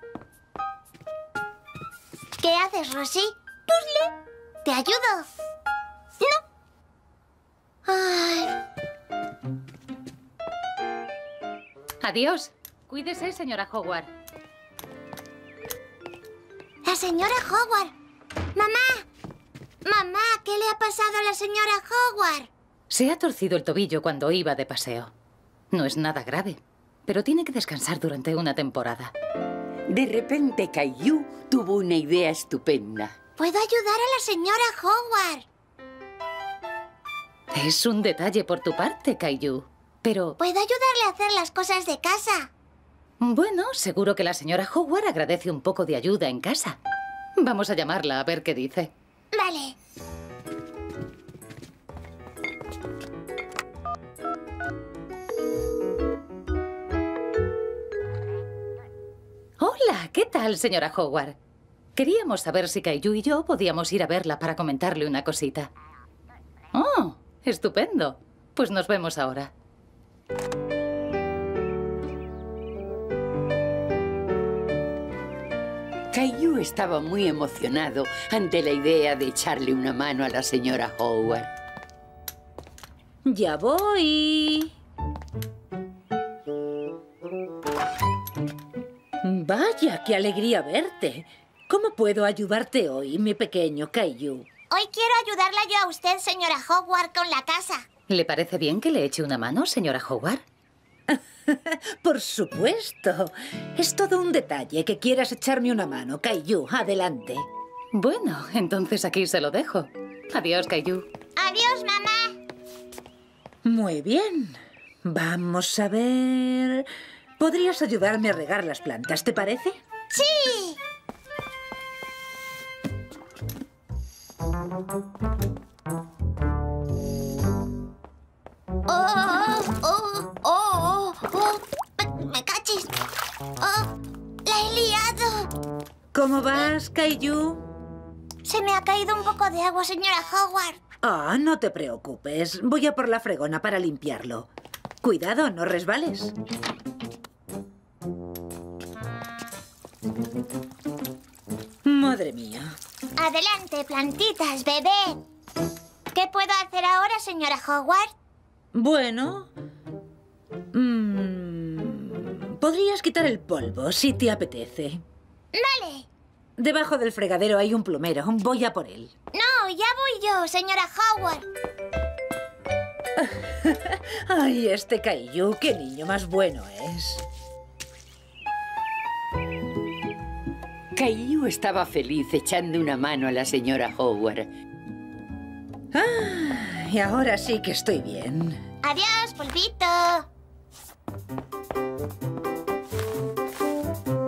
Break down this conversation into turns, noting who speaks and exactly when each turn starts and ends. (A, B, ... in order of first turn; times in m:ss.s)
0:02.4-0:04.1 A
0:04.6-0:05.3 A
0:07.8-0:08.5 A
0:12.0-0:14.1 B
0:16.8-0:17.9 A
0:18.5-0:19.0 A
0:19.8-0:22.5 A
0:22.9-0:25.1 B
0:25.7-0:29.1 B
0:29.9-0:33.2 C
0:33.4-0:35.4 A
0:37.5-0:40.4 B
0:40.4-0:42.5 A
0:43.2-0:46.8 B
0:47.4-0:48.9 B
0:49.3-0:49.7 A
0:59.6-1:01.4 B
1:02.0-1:05.7 B
1:06.7-1:09.5 B
1:16.1-1:21.5 C
1:23.2-1:24.7 D
1:29.2-1:34.4 D
1:34.7-1:37.8 A
1:38.1-1:40.4 B
1:41.1-1:47.4 D
1:47.9-1:51.0 B
1:51.4-1:52.4 A
1:53.6-1:56.9 D
1:57.4-1:59.8 D
2:00.1-2:00.8 A
2:08.9-2:12.9 A
2:13.6-2:13.9 A
2:14.4-2:15.5 A
2:16.1-2:17.6 D
2:18.4-2:20.8 A
2:21.0-2:24.5 D
2:25.0-2:26.3 D
2:31.8-2:32.7 D
2:33.2-2:35.2 A
2:36.1-2:38.1 A
2:38.7-2:39.5 D
2:40.7-2:45.0 D
2:45.5-2:46.1 A
2:46.6-2:49.1 D
2:49.3-2:51.4 A
2:53.2-2:57.2 D
3:00.9-3:04.5 C
3:05.9-3:08.6 D
3:08.8-3:10.2 A